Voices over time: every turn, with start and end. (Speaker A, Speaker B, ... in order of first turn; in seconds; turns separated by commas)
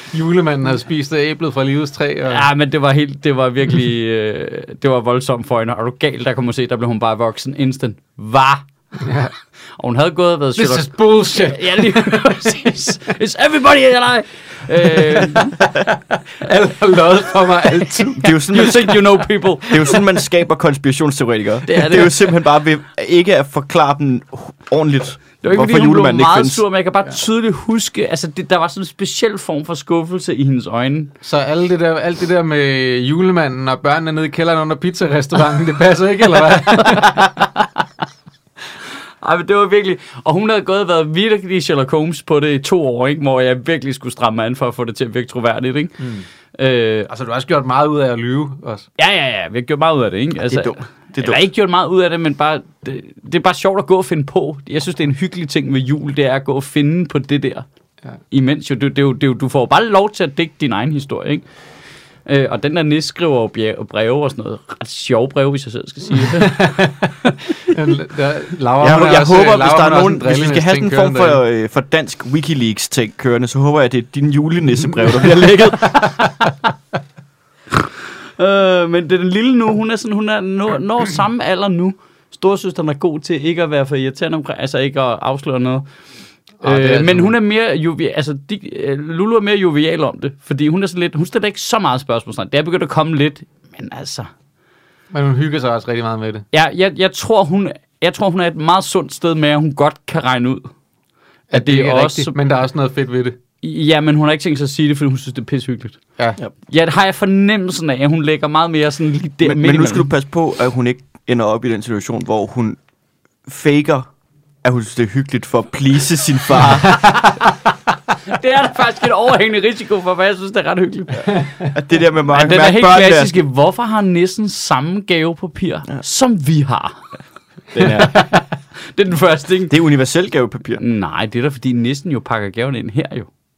Speaker A: 0.1-2.5, Speaker B: 2.3-8.6, Speaker A: 9.0-9.3, Speaker B: 9.8-15.6, Speaker A: 10.6-12.7, Speaker A: 14.9-19.0, Speaker B: 17.8-20.1, Speaker C: 18.2-19.0, Speaker C: 19.7-26.6, Speaker B: 21.7-22.4, Speaker B: 25.4-31.1, Speaker A: 31.2-37.3, Speaker B: 36.8-37.5, Speaker B: 39.2-46.0, Speaker B: 46.5-47.1, Speaker A: 47.1-48.9, Speaker B: 49.0-57.6, Speaker C: 50.4-51.4, Speaker B: 58.3-61.4, Speaker B: 62.3-66.8, Speaker A: 66.2-71.4, Speaker C: 68.8-76.1, Speaker B: 76.0-76.5, Speaker B: 78.4-85.8, Speaker A: 86.6-87.3, Speaker B: 86.6-94.3, Speaker A: 95.1-96.5, Speaker B: 96.5-100.7, Speaker A: 101.5-103.4, Speaker B: 101.5-102.3, Speaker B: 103.6-106.0, Speaker B: 106.7-110.1, Speaker C: 109.4-112.8, Speaker C: 113.5-114.1, Speaker C: 114.6-117.0, Speaker B: 118.2-121.5, Speaker C: 121.7-123.4, Speaker B: 122.3-127.0, Speaker B: 127.7-129.7, Speaker C: 127.7-128.3, Speaker C: 129.7-130.8, Speaker B: 130.8-133.3